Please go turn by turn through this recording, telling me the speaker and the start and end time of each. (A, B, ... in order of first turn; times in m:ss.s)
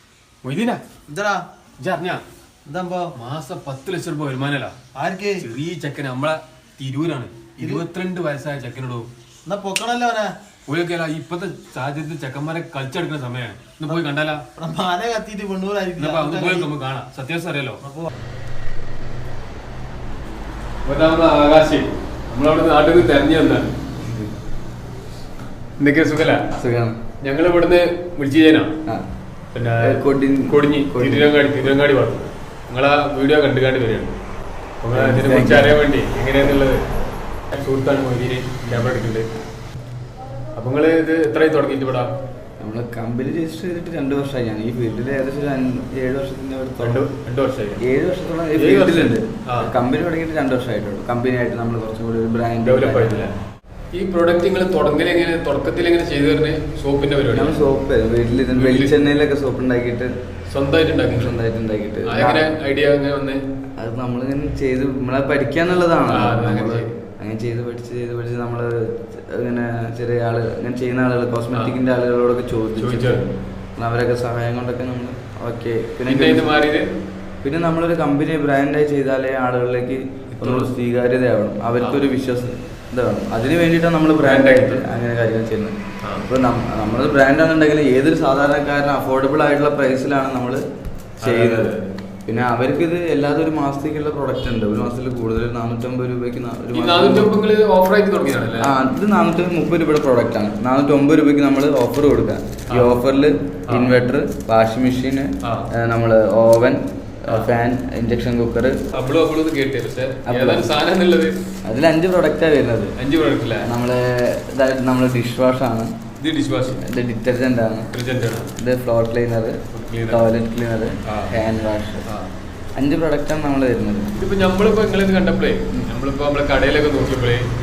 0:00.4-0:00.8 A
0:01.1-0:01.5 B
0:01.8-0:02.2 A
0:02.6-0:03.2 B
0:03.1-0:04.8 A
0:04.9-0:05.4 B
0:05.4-0:09.1 A
0:09.4-0:10.3 B
0:10.7-0:14.4 A
0:14.6-0:16.7 B
0:16.0-0:17.8 A
0:17.8-0:18.1 B
0:20.8-0:23.7 A
0:24.0-0:24.3 C
0:25.8-0:26.5 A
0:26.6-0:27.0 C
0:27.2-0:28.7 A
0:29.5-0:34.1 A
0:29.8-0:31.3 C
0:34.8-0:36.8 A
0:34.9-0:35.8 C
0:37.5-0:39.3 A
0:38.6-0:39.0 C
0:40.5-0:42.1 A
0:42.6-0:47.0 C
0:46.8-0:47.8 A
0:47.8-0:53.3 C
0:48.6-0:49.7 A
0:52.6-0:53.3 A
0:53.9-0:57.6 A
0:57.3-1:00.1 C
0:58.6-0:58.9 A
1:00.5-1:01.4 A
1:01.1-1:02.5 C
1:02.0-1:03.4 A
1:03.8-1:16.5 C
1:06.1-1:06.9 A
1:11.5-1:11.8 A
1:12.8-1:13.3 A
1:16.0-1:16.9 A
1:17.4-1:30.6 C
1:20.3-1:20.7 A
1:21.8-1:22.0 A
1:24.2-1:24.9 A
1:31.2-1:31.7 C
1:31.2-1:31.9 A
1:32.3-1:37.4 C
1:36.7-1:38.7 A
1:38.6-1:48.8 C
1:42.7-1:43.0 A
1:43.7-1:43.9 A
1:45.4-1:45.7 A
1:48.9-1:51.4 A
1:50.2-1:50.7 C
1:51.6-1:52.9 C
1:53.0-1:53.7 A
1:53.6-1:56.0 C
1:56.2-1:56.8 A
1:56.8-1:57.9 C
1:57.9-1:58.5 A
1:58.6-2:02.0 C
1:59.7-2:00.3 A
2:01.0-2:01.4 A
2:02.8-2:04.1 C
2:04.1-2:07.4 A